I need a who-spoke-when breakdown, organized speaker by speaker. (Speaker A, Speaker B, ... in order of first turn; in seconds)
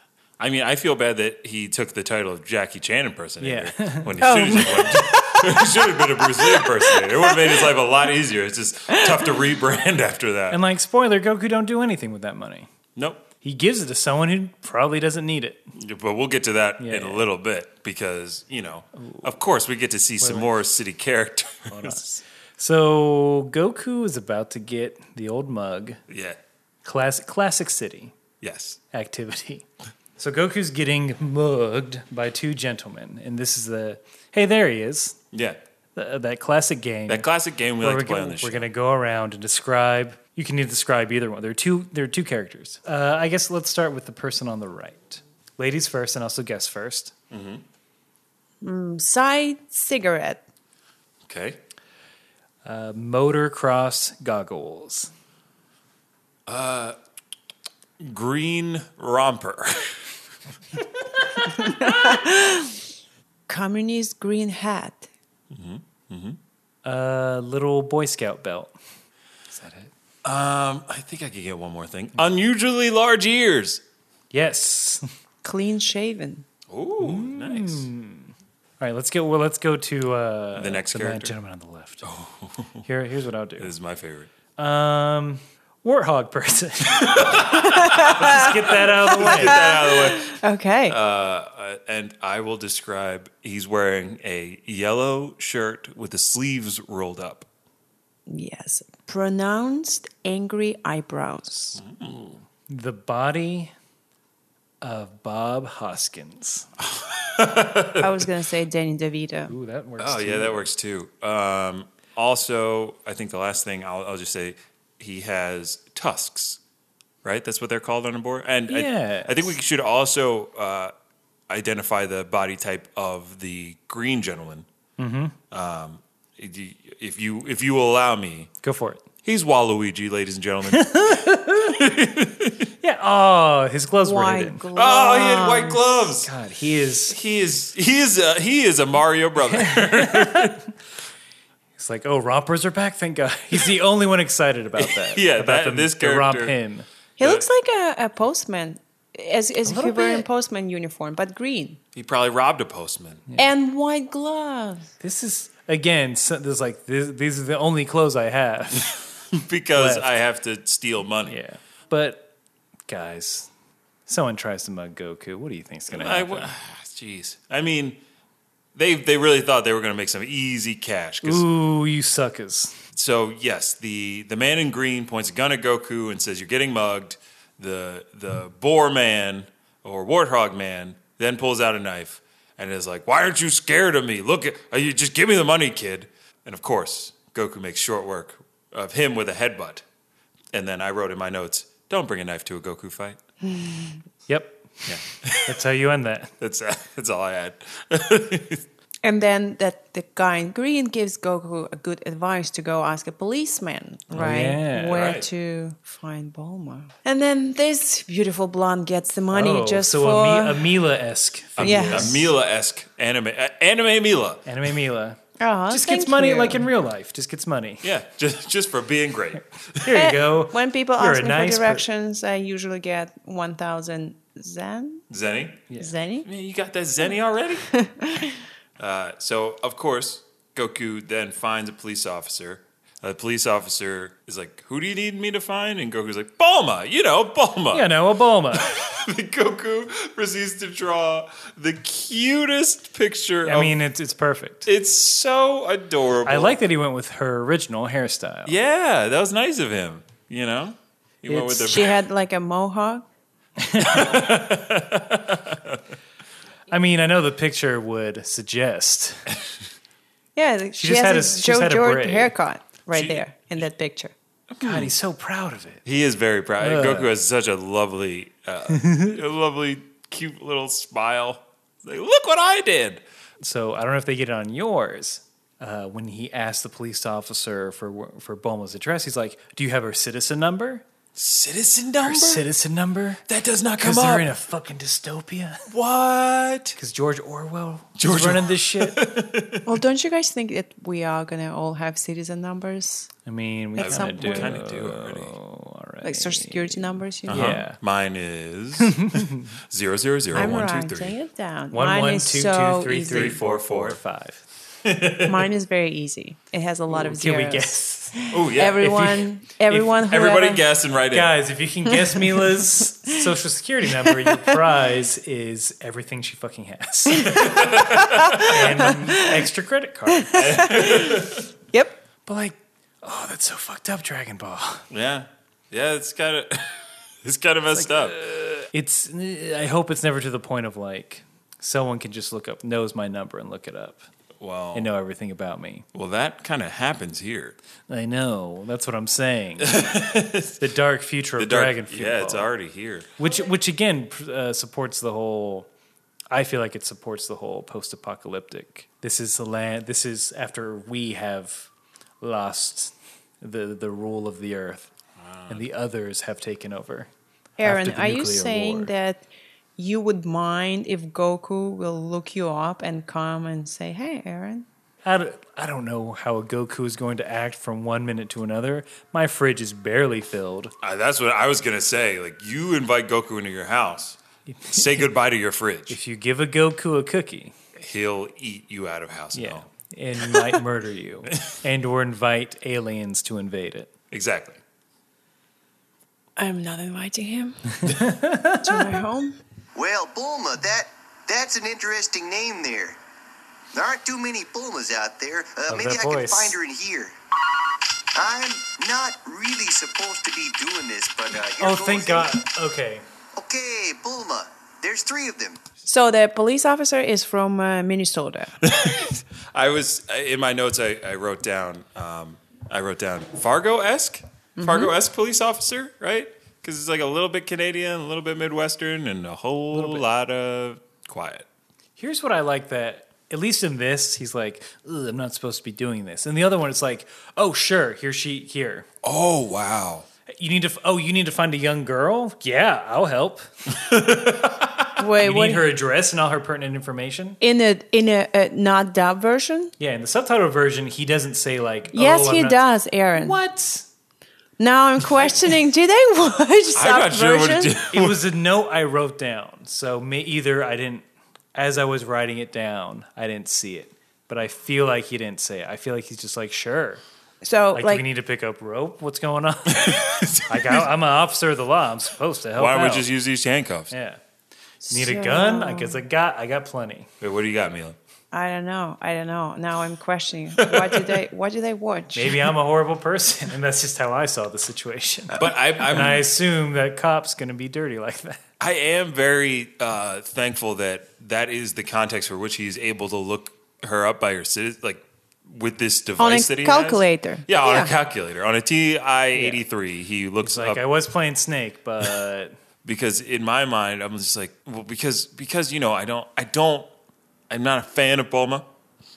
Speaker A: 0.4-10.6, 12.9-13.2, 15.7-22.2, 26.1-26.4, 28.4-28.8, 35.3-35.6, 37.1-38.7, 47.3-47.6, 51.3-51.6, 56.5-57.0, 58.0-60.0, 65.5-66.4, 70.2-73.8, 76.7-77.9, 80.5-81.3, 82.0-82.8, 83.6-84.3, 86.9-90.3, 90.9-97.5, 101.8-102.4, 106.8-108.1, 110.0-116.6, 117.2-120.9, 121.5-124.7, 125.5-128.5, 129.2-132.7, 134.7-136.3, 137.1-140.6, 144.8-146.6, 147.2-147.4, 151.9-153.2, 158.9-161.4, 165.9-168.0, 168.7-171.4, 172.9-189.8, 190.5-193.2, 194.8-195.6, 196.4-198.6, 204.1-205.2, 211.6-214.5, 217.8-219.9, 225.1-225.6, 226.2-227.7, 228.8-237.9, 238.5-243.7, 244.6-246.6, 248.5-251.9, 253.8-255.8, 262.9-263.2, 264.5-264.9, 265.8-273.0, 281.1-282.4, 283.3-284.3, 285.7-286.8, 288.0-289.6, 293.8-295.4, 297.3-301.1, 303.1-304.0, 304.8-305.5, 308.3-309.0, 310.1-311.3, 317.2-318.9, 320.3-321.4, 324.9-328.3, 334.4-334.9, 335.9-337.6, 339.6-340.6, 341.4-343.1, 355.2-355.6, 370.8-376.0, 377.8-379.6, 384.1-384.6, 408.6-421.4, 429.0-430.1, 433.7-434.9, 446.7-448.2, 459.7-460.9, 462.6-463.9, 467.2-468.0, 470.6-471.1, 475.3-476.3, 478.6-490.8, 492.8-496.9, 497.5-498.7
Speaker B: 3.4-4.2, 10.5-12.7, 13.4-15.6, 16.8-17.2, 20.2-20.6, 21.7-26.0, 26.8-28.1, 28.9-29.6, 30.2-35.2, 35.9-37.3, 37.8-47.1, 52.6-55.1, 66.8-68.7, 69.5-69.9, 74.3-75.0, 77.0-82.0, 82.8-83.7, 84.6-89.7, 102.7-103.7, 104.8-106.7, 109.5-110.7, 118.7-119.5, 125.0-125.3, 128.6-129.1, 130.7-131.8, 132.8-134.6, 136.2-137.2, 139.5-140.7, 141.8-146.9, 149.6-150.3, 155.0-159.0, 159.7-160.1, 161.2-162.3, 162.9-163.5, 164.1-166.5, 171.2-172.8, 194.3-196.3, 204.1-205.1, 209.3-212.3, 214.4-217.8, 219.8-221.8, 237.7-238.7, 243.4-244.7, 246.2-248.6, 251.3-251.8, 253.6-254.3, 256.7-259.2, 260.7-262.3, 264.6-265.8, 266.6-267.1, 268.7-269.1, 273.4-280.8, 282.0-283.2, 283.8-285.7, 286.8-289.0, 293.2-297.8, 298.8-299.5, 301.7-304.4, 306.9-310.1, 311.1-317.7, 318.3-320.6, 322.2-324.8, 327.7-334.0, 334.7-335.9, 337.9-339.9, 340.6-342.5, 343.2-345.7, 346.3-351.7, 352.2-354.9, 355.5-358.9, 365.0-370.7, 374.5-375.1, 375.9-377.5, 379.3-383.9, 387.8-389.0, 395.7-396.6, 401.6-403.0, 419.7-420.0, 422.0-428.9, 430.3-433.4, 435.2-437.4, 439.8-442.6, 443.1-443.9, 447.9-457.0, 457.7-463.1, 463.9-464.2, 464.9-467.1, 472.1-478.4, 489.3-489.6, 490.4-492.5
Speaker C: 4.2-7.7, 8.9-9.3, 48.6-50.4, 61.6-62.8, 63.5-65.1, 75.4-76.5, 87.5-88.6, 89.2-91.0, 98.3-101.7, 108.0-109.5, 134.0-135.8, 147.2-151.8, 153.4-154.9, 193.4-194.0, 199.0-210.8, 211.6-212.2, 215.4-216.7, 219.9-225.0, 225.8-226.2, 227.7-228.4, 251.6-253.0, 260.4-264.1, 289.6-293.1, 293.8-294.6, 296.0-297.6, 300.3-303.4, 305.2-310.6, 311.9-313.2, 318.1-319.5, 320.1-322.0, 357.6-359.2, 359.8-364.6, 386.4-387.8, 388.6-389.4, 405.9-408.5, 414.6-414.9, 435.0-435.7, 437.4-439.7, 441.9-443.4, 444.6-447.8, 457.4-458.0, 464.8-466.0, 468.3-472.5, 486.2-487.9
Speaker D: 389.7-393.0, 393.7-397.1, 398.1-402.4, 403.4-405.6